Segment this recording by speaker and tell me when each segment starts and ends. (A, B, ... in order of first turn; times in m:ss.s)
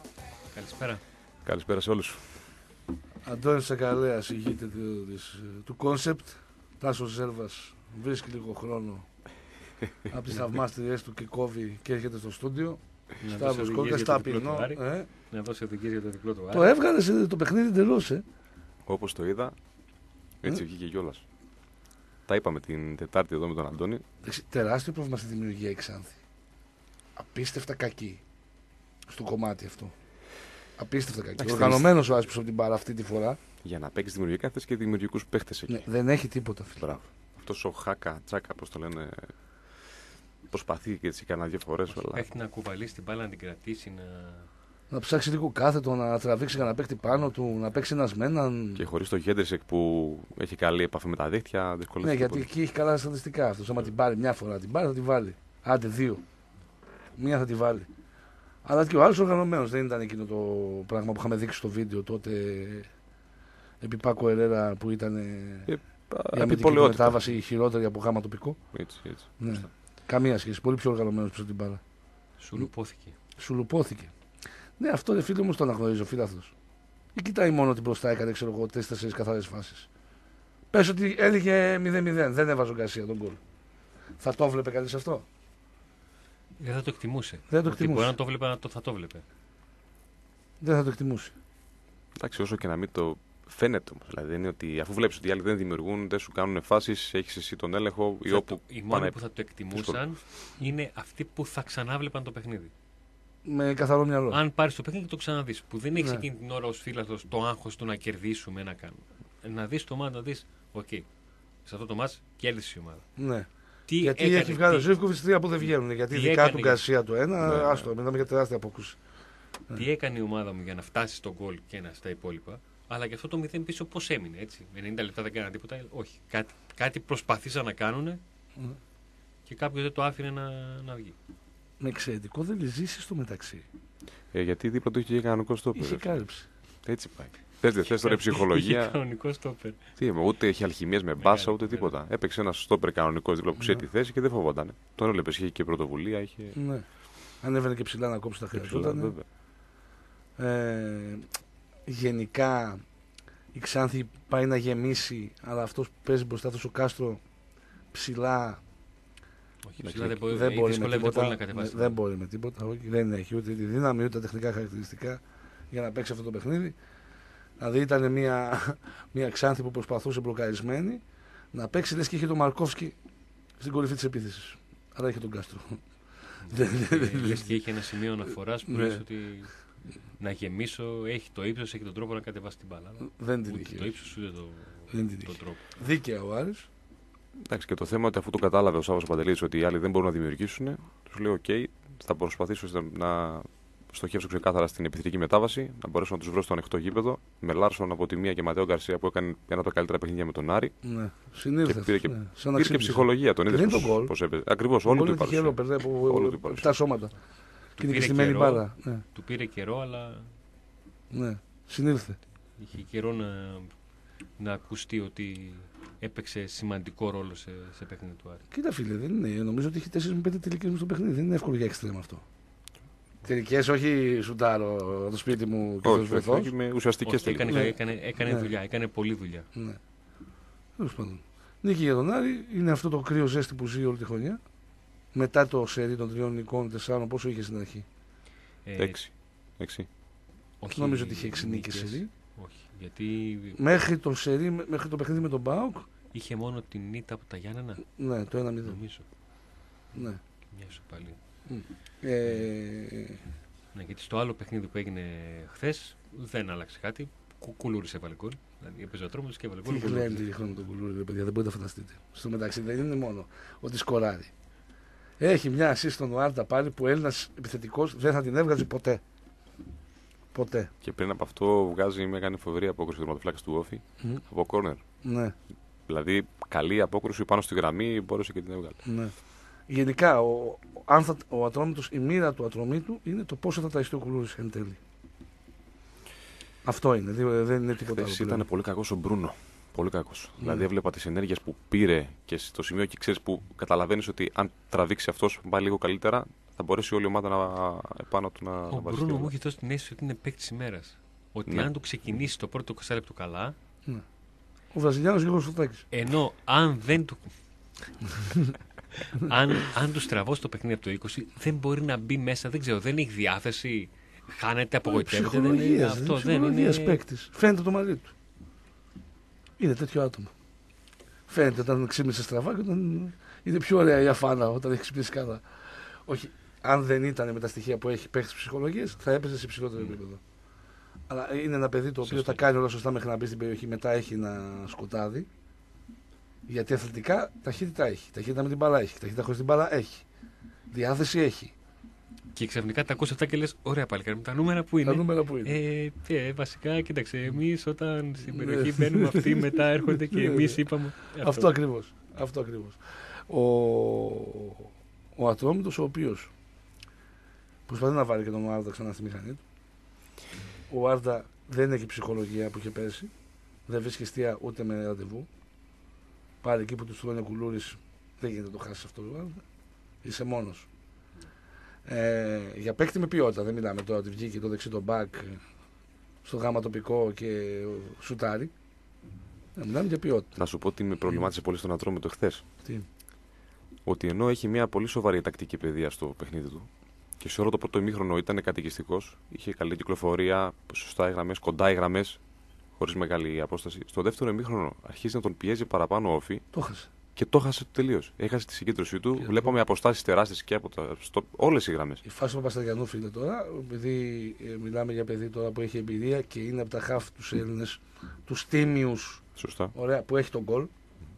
0:00.5-0:01.0 A
0:01.4-0:02.5 B
0:03.2-0:09.0 C
0:10.1-0:15.1 C
0:13.2-0:16.7 A
0:16.5-0:18.2 C
0:18.8-0:19.6 B
0:20.4-0:21.2 B
0:22.2-0:24.0 B
0:24.2-0:26.2 C
0:27.2-0:28.2 C
0:29.1-0:29.9 C
0:30.8-0:33.4 C
0:31.4-0:31.9 B
0:33.6-0:35.8 B
0:35.7-0:36.8 C
0:36.8-0:39.9 B
0:40.5-0:42.3 B
0:42.0-0:44.5 A
0:44.9-0:48.8 C
0:48.8-0:52.5 B
0:52.0-0:56.2 C
0:57.2-0:57.9 C
0:58.6-1:02.9 C
1:03.8-1:05.7 C
1:05.7-1:07.3 B
1:06.3-1:08.7 C
1:08.7-1:09.5 B
1:09.4-1:11.8 C
1:12.4-1:13.1 A
1:13.4-1:14.1 C
1:14.8-1:16.5 C
1:17.1-1:19.9 C
1:20.7-1:23.4 C
1:24.2-1:25.2 C
1:26.6-1:29.2 A
1:27.5-1:28.1 C
1:30.6-1:31.3 C
1:32.1-1:39.2 B
1:38.3-1:42.7 A
1:39.7-1:40.0 B
1:43.4-1:44.4 C
1:44.3-1:51.1 A
1:46.0-1:46.2 C
1:51.6-1:53.1 A
1:53.2-1:59.0 C
1:53.8-1:54.9 A
1:56.1-1:56.8 A
1:57.4-1:57.9 B
1:59.7-2:08.2 A
2:09.4-2:11.2 A
2:11.8-2:13.6 C
2:14.3-2:16.2 B
2:15.7-2:16.5 C
2:16.8-2:19.0 B
2:18.0-2:19.8 A
2:20.0-2:26.6 B
2:21.2-2:21.9 A
2:26.5-2:26.8 C
2:27.4-2:29.1 C
2:28.5-2:29.2 B
2:30.4-2:31.3 C
2:31.8-2:32.8 C
2:33.5-2:37.2 C
2:37.9-2:38.6 C
2:39.6-2:42.0 A
2:39.8-2:40.2 B
2:40.3-2:46.7 C
2:47.6-2:53.0 C
2:53.6-2:57.5 C
2:56.5-3:05.6 A
2:58.7-2:59.0 C
3:03.1-3:03.9 C
3:04.9-3:06.7 C
3:07.4-3:20.8 B
3:20.8-3:24.1 C
3:21.6-3:26.7 B
3:24.8-3:27.2 C
3:27.8-3:29.0 C
3:27.8-3:30.3 A
3:31.1-3:32.2 C
3:32.6-3:33.7 A
3:34.4-3:38.4 A
3:38.5-3:42.2 C
3:43.2-3:46.5 C
3:45.8-3:47.7 B
3:47.0-3:49.5 A
3:47.5-3:48.5 C
3:49.5-3:49.8 C
3:50.8-3:54.4 C
3:55.1-3:57.8 C
3:58.6-3:59.0 A
3:58.8-3:59.9 B
4:00.6-4:03.6 A
4:00.7-4:02.1 C
4:03.6-4:05.9 C
4:06.1-4:07.9 A
4:07.9-4:08.8 C
4:08.6-4:09.0 A
4:09.9-4:10.2 C
4:10.5-4:11.2 A
4:11.4-4:13.2 C
4:13.7-4:20.2 A
4:19.6-4:24.3 C
4:25.2-4:29.0 C
4:30.3-4:30.7 C
4:30.8-4:34.8 B
4:35.0-4:35.3 C
4:35.9-4:38.8 B
4:38.8-4:44.8 C
4:46.6-4:48.4 C
4:47.9-4:59.3 B
4:58.7-5:03.5 A
5:04.7-5:05.8 C
5:05.9-5:07.3 A
5:08.2-5:08.5 C
5:09.0-5:17.0 A
5:14.8-5:18.1 C
5:19.6-5:20.3 C
5:21.3-5:30.2 C
5:31.1-5:35.3 C
5:32.0-5:32.4 A
5:36.5-5:40.0 C
5:40.7-5:41.5 C
5:42.3-5:51.5 A
5:44.8-5:45.6 C
5:48.3-5:56.3 C
5:57.7-5:59.4 C
6:00.7-6:03.1 C
6:03.7-6:05.3 C
6:06.4-6:09.4 C
6:10.0-6:10.7 C
6:11.8-6:15.4 C
6:16.2-6:18.5 C
6:19.6-6:20.3 C
6:20.3-6:22.4 B
6:23.8-6:26.7 B
6:27.2-6:32.2 B
6:32.8-6:36.4 B
6:36.5-6:36.9 C
6:37.2-6:42.0 B
6:42.0-6:49.2 C
6:49.4-6:49.7 B
6:49.7-6:50.7 C